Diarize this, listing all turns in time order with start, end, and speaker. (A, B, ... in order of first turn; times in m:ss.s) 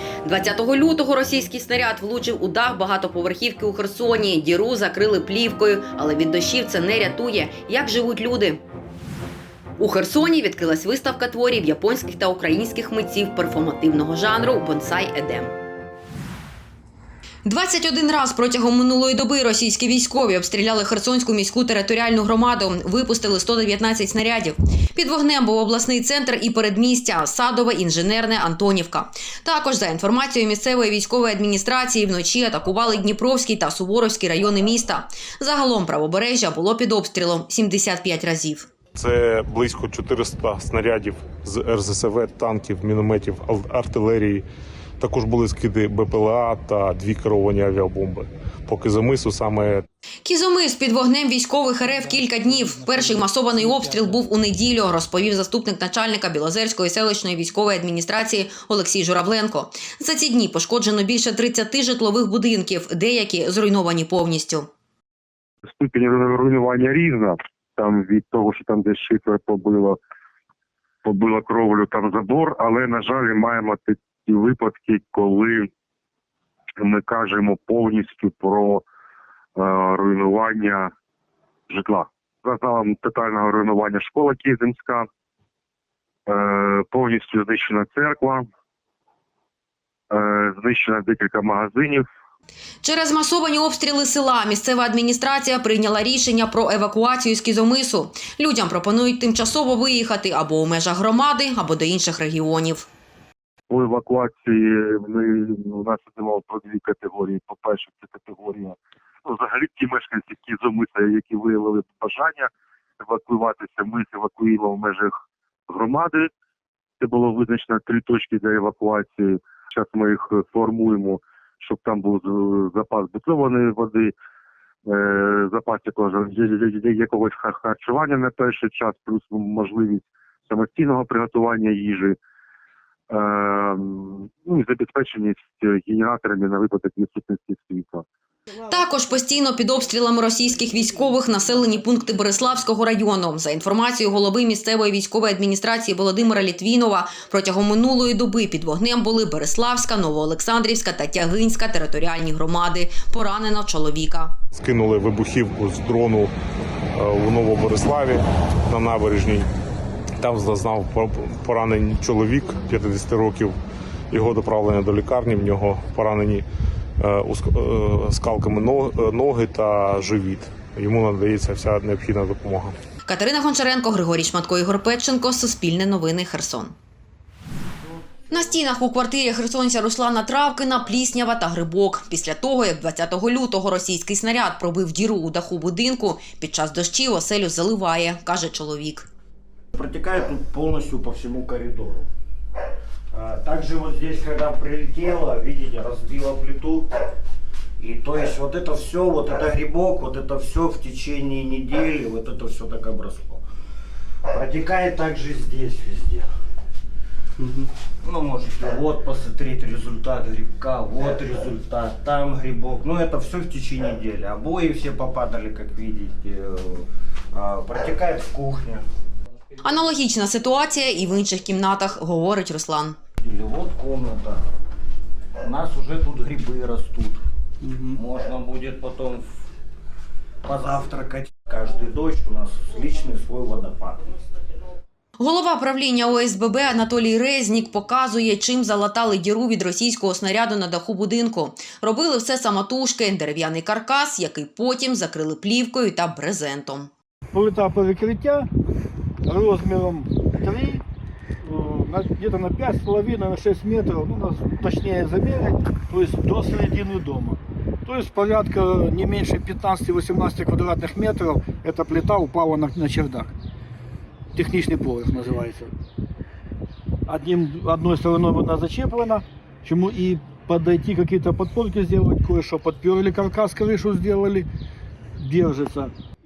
0:00.2-0:08.6 A
0:09.8-0:15.6 A
0:17.4-0:38.7 A
0:39.0-0:44.4 B
0:45.0-0:49.8 B
0:50.2-1:04.7 A
1:05.6-1:10.0 C
1:11.0-1:15.7 C
1:16.8-1:18.8 C
1:19.6-1:20.9 C
1:21.7-1:25.1 C
1:26.3-1:28.5 C
1:30.1-1:32.1 C
1:32.8-1:42.9 A
1:43.7-1:55.1 C
1:55.7-1:56.3 C
1:57.0-2:04.1 C
2:04.9-2:12.2 C
2:13.1-2:18.0 C
2:18.7-2:34.4 A
2:34.5-2:36.3 B
2:37.0-2:39.5 B
2:40.2-2:43.6 B
2:44.1-2:46.4 B
2:47.0-2:52.8 B
2:53.1-2:56.8 A
2:58.3-3:09.1 A
3:09.8-3:12.1 D
3:13.1-3:16.9 D
3:17.8-3:23.4 D
3:24.3-3:26.3 D
3:28.0-3:38.8 D
3:39.6-3:43.0 A
3:43.2-3:44.5 D
3:45.4-3:47.2 D
3:47.9-3:49.3 D
3:50.4-3:54.1 D
3:55.2-4:06.9 A
4:07.3-4:08.5 E
4:09.3-4:10.8 E
4:11.4-4:23.3 E
4:24.3-4:25.7 E
4:27.1-4:34.5 E
4:35.2-4:35.9 E